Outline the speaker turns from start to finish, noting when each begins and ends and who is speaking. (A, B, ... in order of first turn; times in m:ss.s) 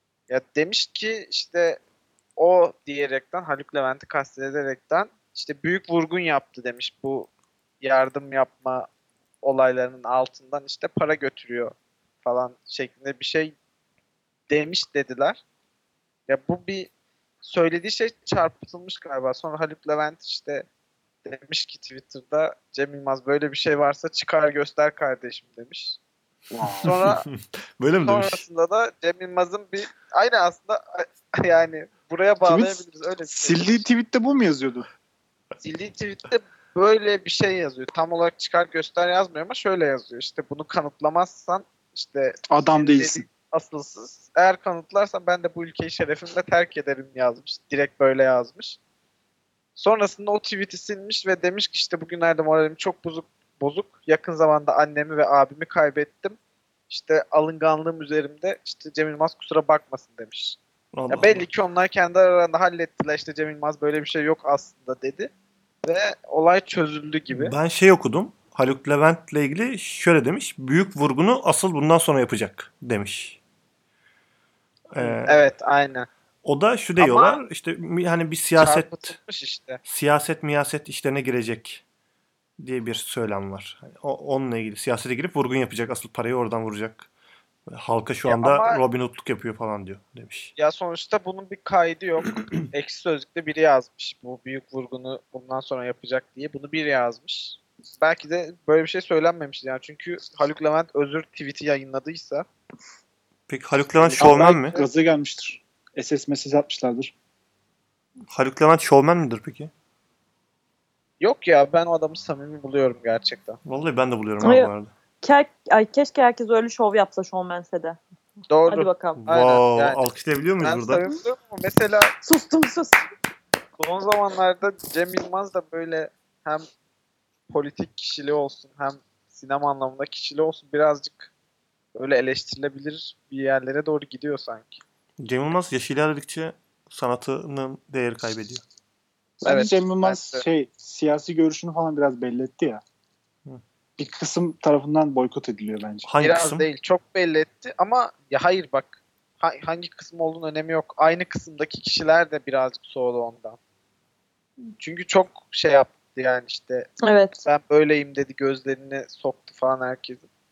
0:00.3-0:01.8 A
0:02.4-0:08.9 A
0:09.4-0:13.5 A
0:14.5-0:15.4 A
0:16.3-0:16.9 A
0:17.4-0:20.7 A
0:21.2-0:26.0 A
0:26.5-0:27.0 B
0:26.7-0:28.4 C
0:26.8-0:27.2 A
0:28.0-0:33.8 A
0:32.4-0:34.9 B
0:35.6-0:48.8 A
0:42.5-0:43.2 B
0:49.8-0:56.4 A
0:56.9-1:00.6 A
1:00.9-1:01.5 C
1:01.1-1:05.3 A
1:05.8-1:07.5 A
1:07.3-1:13.4 C
1:14.9-1:15.4 C
1:15.0-1:16.1 A
1:16.4-1:19.2 C
1:17.0-1:17.4 A
1:18.6-1:19.8 A
1:19.8-1:21.8 C
1:22.6-1:27.1 C
1:27.7-1:30.5 C
1:28.3-1:28.8 A
1:30.6-1:42.5 A
1:32.3-1:32.6 C
1:43.5-1:44.8 C
1:44.0-1:44.9 A
1:44.2-1:47.1 B
1:48.3-1:49.7 C
1:51.2-1:53.6 A
1:53.6-1:54.9 C
1:54.4-1:54.7 D
1:55.2-1:58.0 D
1:58.5-2:00.0 A
1:58.7-1:59.2 D
1:59.2-2:01.0 C
2:00.6-2:02.1 A
2:02.2-2:03.1 D
2:03.8-2:06.7 A
2:07.5-2:11.3 A
2:12.0-2:14.8 A
2:15.2-2:18.6 C
2:19.4-2:22.8 B
2:19.4-2:20.4 A
2:24.0-2:26.1 B
2:26.1-2:26.7 C
2:26.2-2:33.6 A
2:34.8-2:36.9 A
2:37.0-2:37.4 D
2:37.4-2:40.2 A